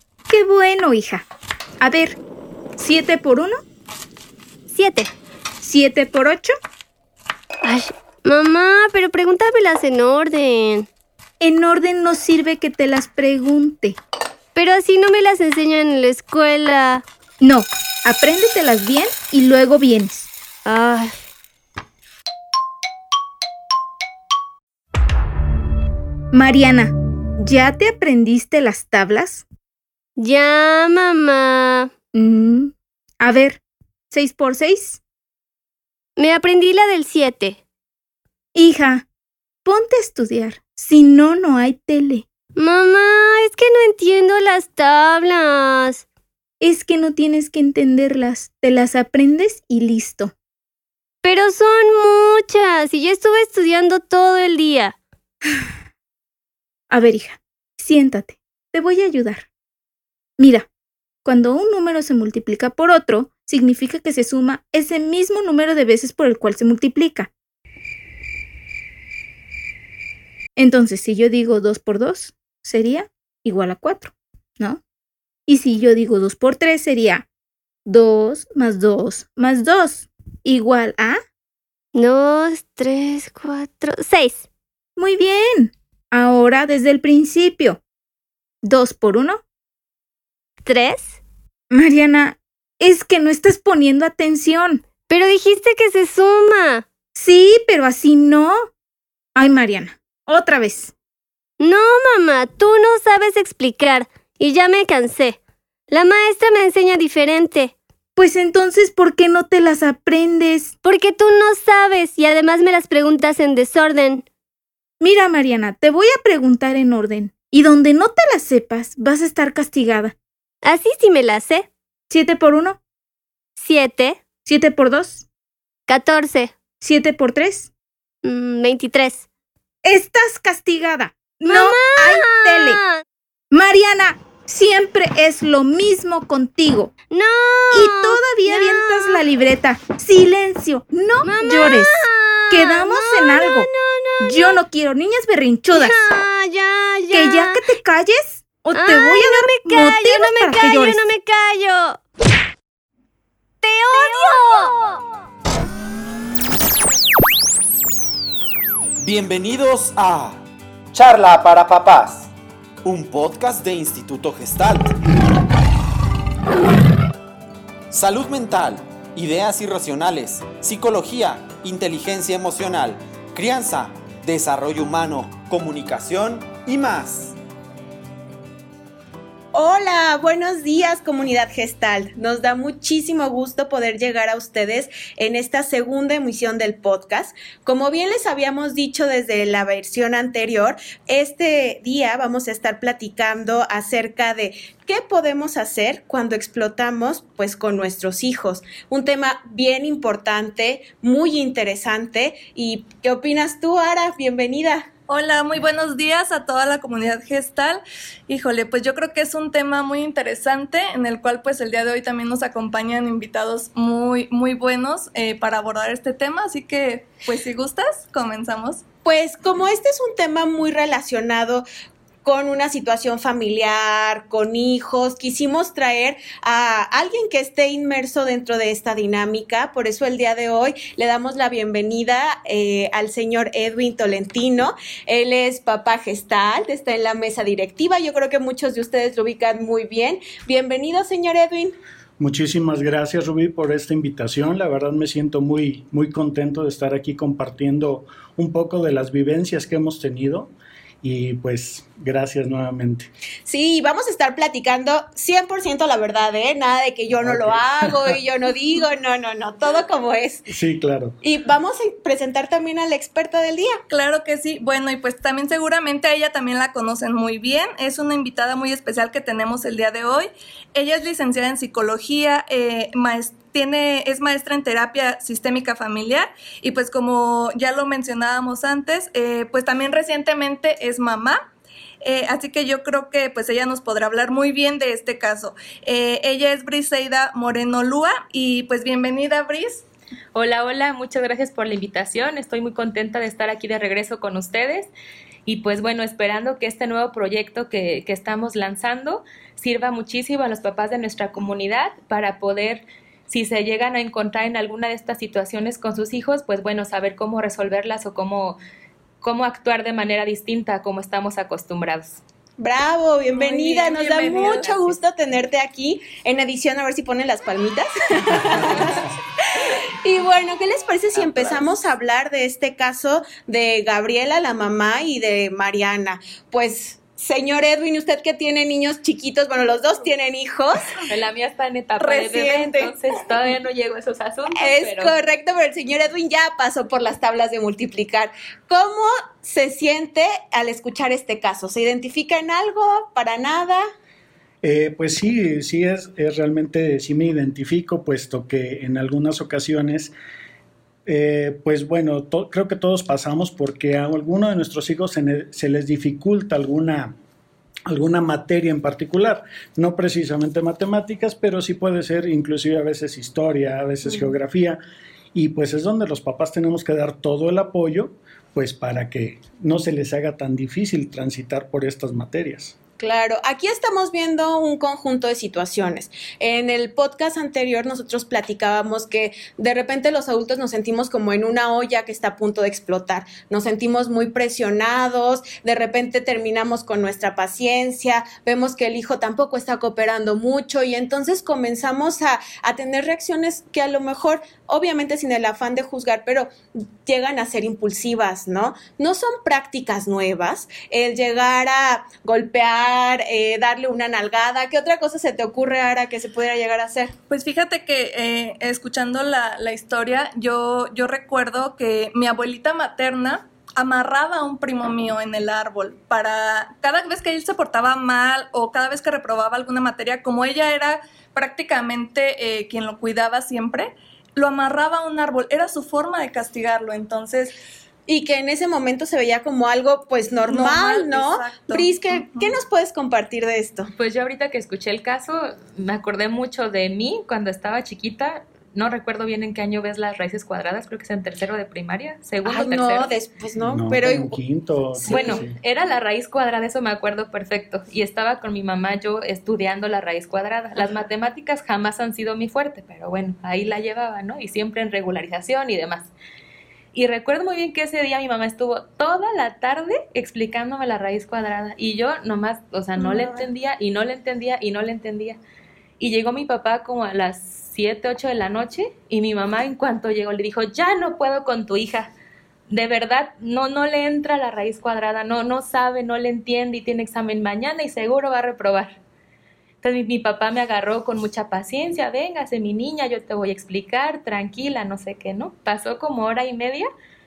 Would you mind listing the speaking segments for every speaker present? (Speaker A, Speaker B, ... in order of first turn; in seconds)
Speaker A: 0.3-1.2, 1.8-2.2, 2.8-3.6, 5.6-6.5, 11.4-13.9, 17.4-20.3, 26.3-29.4, 32.1-35.0, 38.5-39.0, 39.6-42.3, 46.6-50.3, 56.9-59.5, 60.4-60.7, 61.2-67.3, 70.5-74.8, 75.5-77.2, 77.8-81.2, 85.0-87.8, 88.6-89.4, 91.7-94.8, 97.1-98.7, 99.3-100.9, 108.2-110.7, 115.0-120.2, 122.1-122.8, 124.4-125.2, 126.8-127.7, 129.8-132.8, 133.5-136.9, 137.7-143.7, 144.2-146.0, 147.1-151.0
Speaker B: 4.7-5.1, 7.6-10.9, 14.5-17.0, 20.6-21.1, 30.2-31.9, 36.2-37.6, 42.5-46.0, 51.2-55.0, 81.9-84.5, 90.6-91.2, 95.0-96.8, 101.6-107.7, 110.8-114.2, 120.6-121.7, 123.6-124.3, 125.9-126.5, 128.2-129.2, 131.4-133.0, 137.1-139.2, 141.2-144.6, 145.7-147.6, 148.7-152.0, 153.6-155.0
Speaker C: 159.0-160.4, 160.9-162.3, 162.8-164.9, 167.9-177.3
Speaker D: 179.5-204.9, 219.0-221.6, 222.2-241.7, 253.5-260.5, 261.2-263.8, 312.6-331.0, 332.0-332.9, 334.6-343.8, 364.0-364.3, 373.0-407.1, 428.1-433.9, 442.4-444.4, 445.0-445.4
Speaker E: 205.1-218.8, 263.9-281.4, 282.0-289.8, 313.3-314.9, 407.3-427.5, 430.4-432.5, 463.0-463.4
Speaker F: 242.2-253.1, 257.1-258.2, 260.5-261.2, 344.6-350.1, 351.1-357.1, 357.9-364.8, 365.3-372.8, 443.6-445.5
Speaker G: 290.3-294.9, 295.4-308.6, 309.2-312.2, 331.0-335.1, 434.0-443.1, 445.1-456.1, 456.9-465.4, 466.0-472.1, 472.7-479.0, 479.8-486.9